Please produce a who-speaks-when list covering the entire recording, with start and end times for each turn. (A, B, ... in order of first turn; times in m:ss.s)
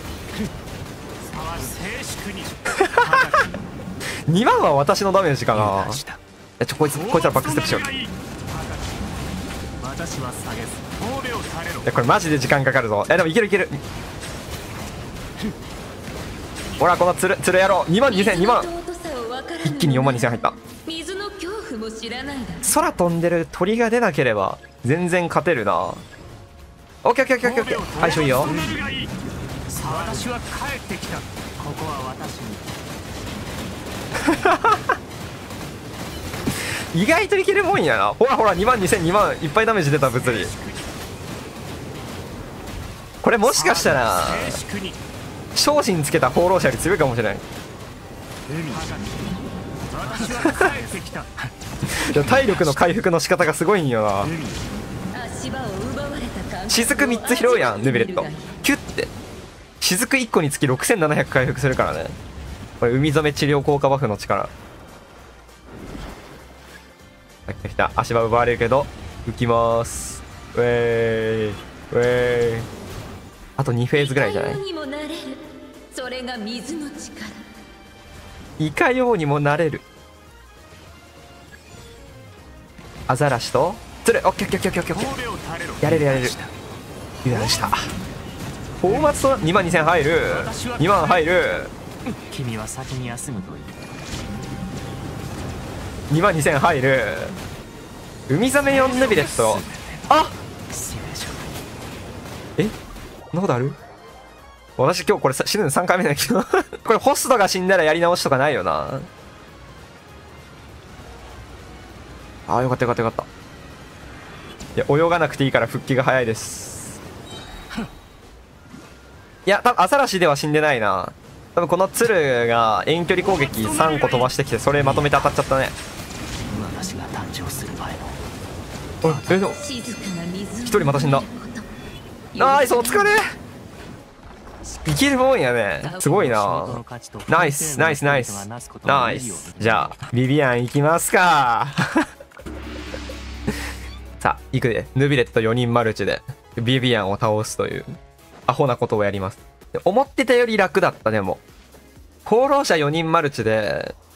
0:01.2-0:03.6 A
0:02.7-0:03.4 B
0:04.3-0:06.0 B
0:05.5-0:06.2 A
0:06.6-0:08.0 B
0:07.0-0:09.2 A
0:09.8-0:11.9 A
0:11.8-0:13.8 B
0:16.8-0:18.7 B
0:18.1-0:22.7 C
0:19.6-0:20.6 B
0:22.6-0:26.0 B
0:27.0-0:28.6 B
0:27.5-0:29.1 A
0:29.7-0:32.8 A
0:34.2-0:35.0 B
0:36.9-0:40.5 B
0:40.2-0:40.9 A
0:43.2-0:44.6 B
0:43.6-0:45.0 A
0:45.6-0:47.4 B
0:48.5-0:49.2 A
0:49.9-0:51.3 A
0:51.8-0:54.4 B
0:55.1-0:58.5 C
0:56.7-0:59.1 B
0:59.8-1:02.2 B
1:02.8-1:04.5 B
1:07.5-1:12.7 B
1:13.6-1:14.6 B
1:14.0-1:17.4 C
1:18.6-1:19.8 B
1:23.1-1:25.2 B
1:25.0-1:26.5 A
1:25.8-1:26.4 B
1:27.2-1:27.9 B
1:28.8-1:31.7 B
1:30.3-1:31.2 A
1:32.1-1:34.0 A
1:36.1-1:37.4 B
1:38.3-1:40.3 B
1:38.7-1:40.1 A
1:40.7-1:41.6 A
1:43.3-1:43.8 B
1:44.8-1:49.1 B
1:52.5-1:53.3 B
1:54.8-1:57.0 B
1:59.5-2:05.8 B
2:03.4-2:04.2 A
2:04.8-2:05.2 A
2:06.5-2:08.2 A
2:09.0-2:09.6 B
2:09.0-2:09.4 A
2:09.5-2:11.7 C
2:10.6-2:11.2 B
2:12.3-2:13.2 C
2:12.4-2:13.3 B
2:14.9-2:22.1 B
2:15.8-2:20.1 A
2:24.2-2:31.4 B
2:32.2-2:34.0 B